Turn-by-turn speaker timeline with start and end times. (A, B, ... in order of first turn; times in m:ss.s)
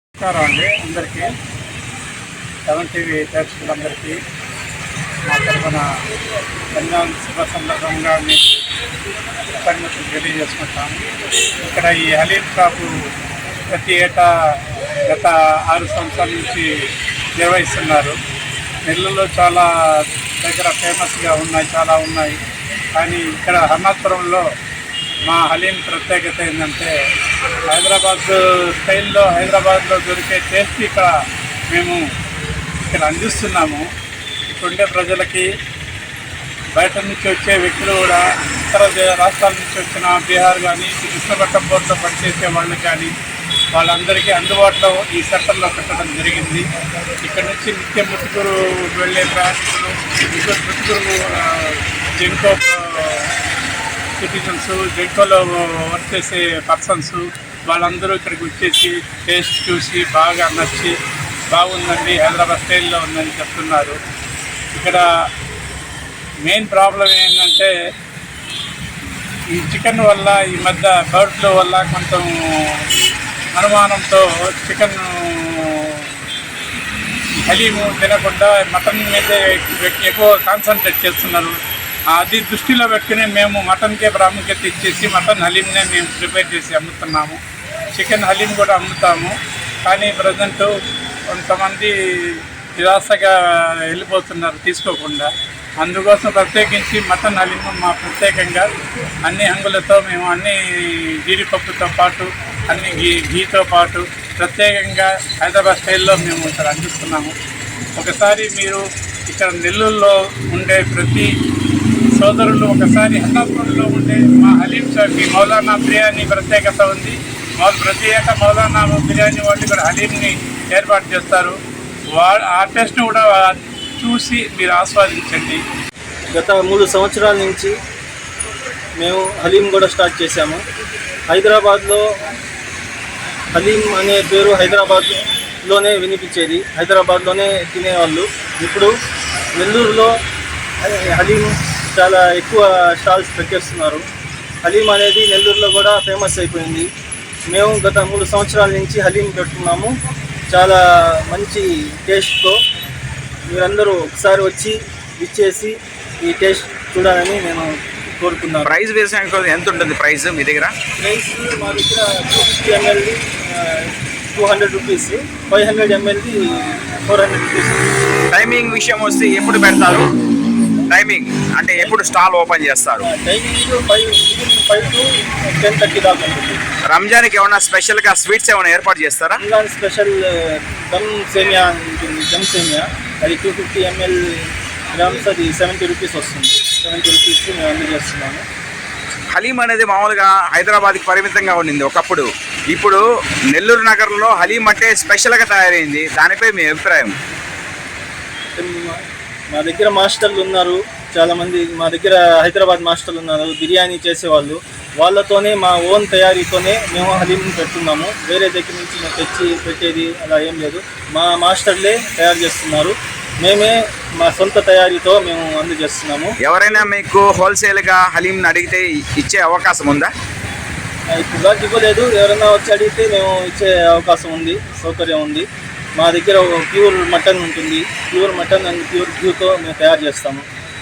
0:00.2-0:01.3 A
0:02.7-0:04.2 A
0:05.3-0:05.9 A
0:06.8-0:08.6 A
0:09.6-0:11.1 A
0:11.7-0:12.9 A
0:13.7-0:14.3 A
0:15.1-0:16.7 A
0:17.4-0:18.2 A
0:18.9-0:22.4 A
0:23.0-0:24.4 A
0:25.3-0:26.9 A
0:27.7-0:31.1 A
0:31.7-0:32.0 A
0:32.9-0:33.9 A
0:34.6-0:35.5 A
0:36.8-0:43.1 A
0:43.7-0:46.7 A
0:47.2-0:53.3 A
0:54.2-1:00.9 A
1:01.5-1:04.0 A
1:04.7-1:05.0 A
1:06.4-1:07.7 A
1:09.5-1:12.8 A
1:13.6-1:16.0 A
1:17.4-1:21.6 A
1:22.1-1:27.4 A
1:28.0-1:30.7 A
1:31.3-1:33.4 A
1:33.9-1:35.3 A
1:35.8-1:38.7 A
1:39.2-1:47.4 A
1:48.0-1:51.3 A
1:52.2-2:01.6 A
2:02.2-2:05.6 A
2:06.3-2:07.7 B
2:09.0-2:10.6 B
2:11.3-2:12.0 B
2:13.5-2:18.9 B
2:19.6-2:20.1 B
2:20.8-2:24.0 B
2:24.6-2:26.9 B
2:27.5-2:29.9 B
2:30.5-2:32.6 B
2:33.5-2:38.7 B
2:38.6-2:40.7 C
2:41.0-2:47.8 B
2:48.3-2:50.1 C
2:50.9-2:53.0 C
2:53.0-2:56.6 B
2:56.9-2:59.4 C
2:59.4-3:08.4 B
3:09.3-3:17.1 C
3:18.6-3:36.4 B
3:36.4-3:40.1 C
3:41.1-3:50.4 B